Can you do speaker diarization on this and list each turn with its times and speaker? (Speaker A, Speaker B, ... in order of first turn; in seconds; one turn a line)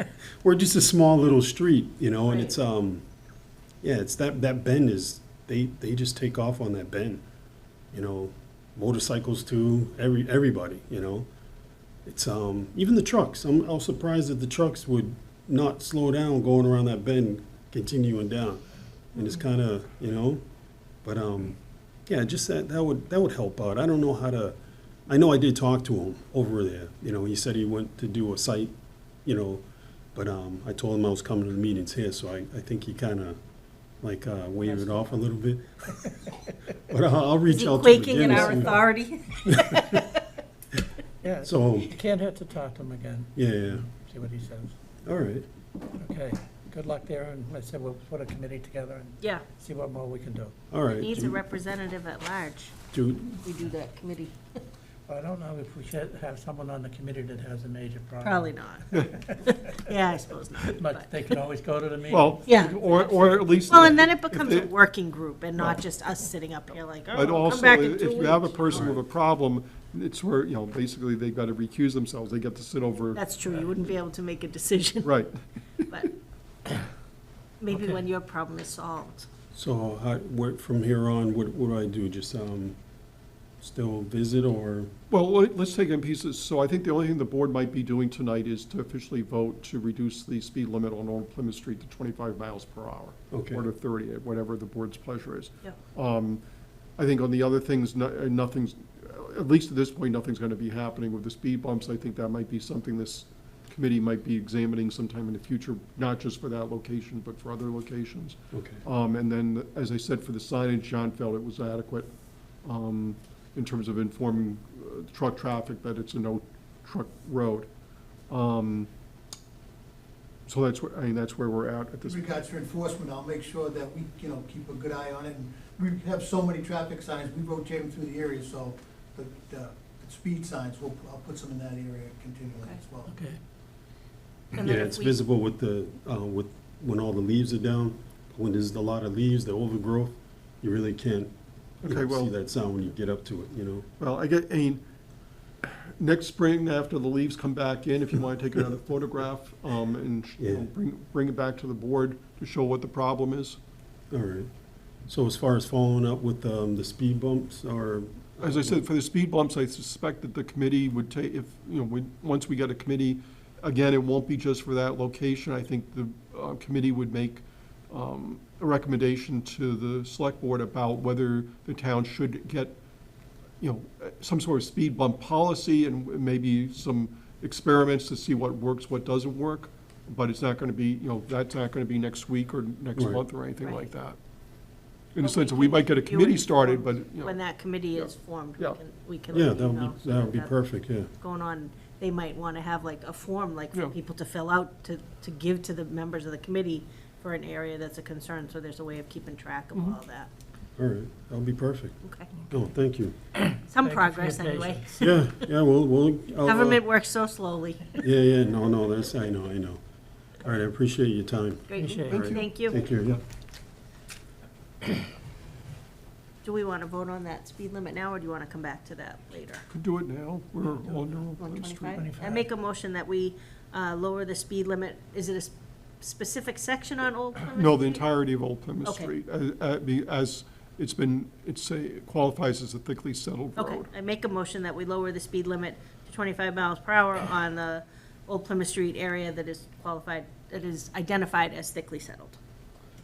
Speaker A: 0.2-3.0
Speaker B: 2.3-2.5
Speaker A: 3.8-7.2
Speaker A: 7.9-11.3
Speaker A: 12.1-18.6
Speaker A: 19.1-20.4
Speaker A: 21.0-24.6
Speaker A: 25.1-28.7
Speaker A: 29.2-29.6
Speaker A: 30.1-33.4
Speaker A: 34.0-38.9
Speaker B: 37.5-40.2
Speaker C: 38.3-38.8
Speaker A: 39.6-39.8
Speaker C: 41.2-43.3
Speaker A: 41.4-41.9
Speaker A: 43.4-43.9
Speaker C: 43.9-44.7
Speaker A: 45.0-45.5
Speaker C: 45.9-50.5
Speaker A: 50.7-51.4
Speaker B: 51.0-52.8
Speaker A: 52.9-53.5
Speaker B: 53.4-54.6
Speaker C: 55.1-59.4
Speaker B: 58.2-61.1
Speaker D: 58.9-59.2
Speaker C: 60.6-64.0
Speaker D: 62.1-64.7
Speaker B: 62.5-62.9
Speaker B: 63.7-69.0
Speaker D: 67.1-73.2
Speaker B: 73.1-75.2
Speaker D: 75.0-75.9
Speaker B: 77.6-79.3
Speaker A: 79.5-82.8
Speaker A: 83.6-84.9
Speaker D: 85.1-96.4
Speaker A: 93.3-93.7
Speaker D: 97.0-112.1
Speaker A: 108.5-108.8
Speaker D: 112.7-117.7
Speaker D: 118.3-118.9
Speaker D: 120.5-122.3
Speaker E: 122.0-133.1
Speaker C: 133.1-133.4
Speaker B: 134.5-135.2
Speaker A: 134.6-141.3
Speaker D: 141.8-142.3
Speaker A: 141.8-143.9
Speaker D: 144.0-144.8
Speaker D: 145.6-153.6
Speaker A: 150.4-150.7
Speaker A: 154.1-154.5
Speaker A: 155.1-158.8
Speaker D: 158.4-172.8
Speaker D: 173.6-184.2
Speaker A: 183.0-183.2
Speaker B: 183.6-183.9
Speaker D: 185.2-187.4
Speaker B: 185.2-190.6
Speaker D: 187.9-188.8
Speaker A: 189.3-191.1
Speaker B: 191.2-200.3
Speaker A: 200.8-202.0
Speaker B: 202.0-202.3
Speaker A: 202.5-203.2
Speaker C: 203.4-205.1
Speaker B: 203.7-205.2
Speaker A: 205.0-206.8
Speaker B: 206.4-208.0
Speaker A: 208.0-209.8
Speaker A: 210.4-213.2
Speaker B: 211.7-212.8
Speaker C: 211.8-212.4
Speaker D: 212.1-212.4
Speaker B: 216.4-219.7
Speaker D: 219.7-222.1
Speaker B: 221.4-228.1
Speaker C: 221.9-222.5
Speaker D: 227.5-233.9
Speaker B: 228.8-229.1
Speaker B: 233.6-242.4